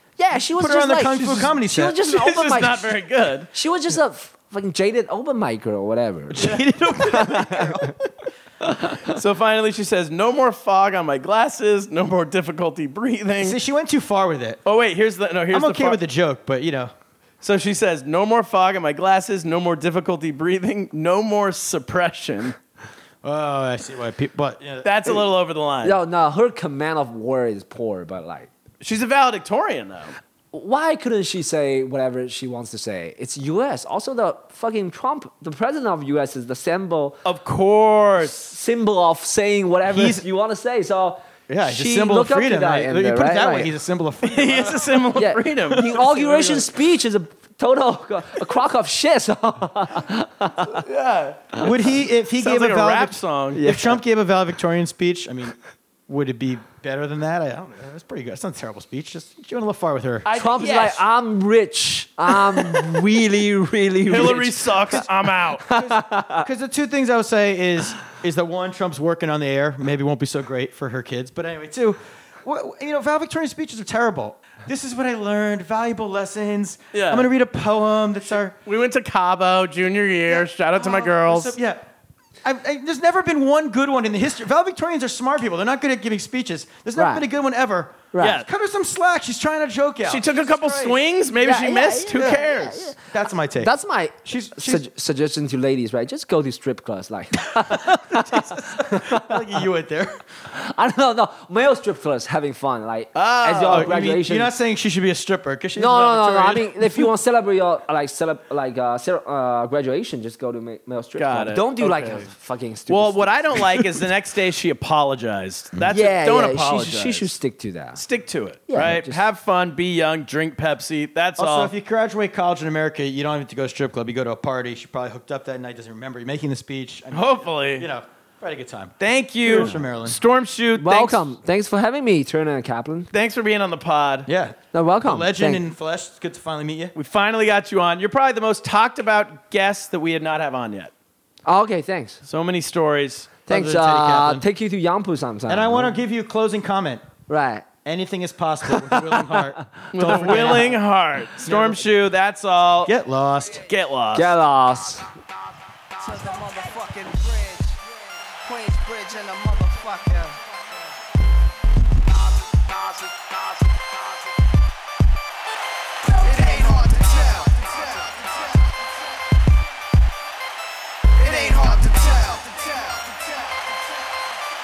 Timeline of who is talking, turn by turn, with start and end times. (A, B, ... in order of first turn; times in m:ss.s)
0:00.2-0:03.0 A
0:00.5-0:02.0 B
0:02.0-0:03.5 C
0:03.5-0:07.9 A
0:06.3-0:07.9 B
0:08.9-0:13.6 C
0:13.4-0:14.6 B
0:14.6-0:16.0 C
0:15.5-0:16.9 B
0:17.4-0:22.6 C
0:23.2-0:25.3 B
0:24.8-0:26.0 C
0:25.8-0:28.5 A
0:28.8-0:30.1 C
0:30.5-0:37.2 A
0:37.2-0:38.4 C
0:38.2-0:43.7 A
0:39.9-0:40.2 B
0:41.5-0:45.0 B
0:44.2-0:46.7 C
0:45.1-0:50.8 A
0:50.6-0:51.7 C
0:51.6-0:55.6 B
0:52.4-0:53.7 C
0:53.5-0:54.0 A
0:56.1-1:00.2 B
1:00.2-1:01.0 C
1:00.2-1:05.0 A
1:04.0-1:05.7 C
1:05.6-1:06.5 A
1:05.8-1:18.5 B
1:16.9-1:17.3 C
1:18.6-1:21.5 C
1:20.3-1:21.8 B
1:22.4-1:31.0 B
1:27.0-1:27.2 A
1:28.1-1:28.4 A
1:28.2-1:28.5 C
1:30.0-1:32.9 C
1:31.4-1:33.0 A
1:33.0-1:33.7 B
1:33.5-1:39.4 A
1:34.2-1:34.8 B
1:37.7-1:40.2 B
1:40.5-1:44.5 A
1:43.1-1:44.2 C
1:43.6-1:47.0 B
1:45.8-1:53.6 A
1:51.2-1:52.3 C
1:52.9-1:57.3 C
1:55.9-1:58.0 A
1:57.9-2:01.7 C
1:58.7-1:59.2 A
2:01.4-2:10.2 B
2:07.1-2:07.9 C
2:09.0-2:11.3 C
2:10.7-2:13.1 A
2:13.1-2:14.3 C
2:14.2-2:16.9 B
2:14.7-2:15.6 A
2:16.9-2:20.9 C
2:21.4-2:22.2 A
2:22.2-2:23.4 C
2:23.5-2:24.4 B
2:23.5-2:26.0 A
2:25.5-2:27.0 B
2:27.3-2:27.6 A
2:27.8-2:30.8 B
2:28.7-2:29.4 A
2:29.9-2:33.0 C
2:30.0-2:30.7 A
2:31.4-2:31.8 B
2:32.8-2:33.7 B
2:33.5-2:34.3 C
2:34.1-2:35.1 A
2:46.2-2:48.2 D
2:51.2-2:53.6 D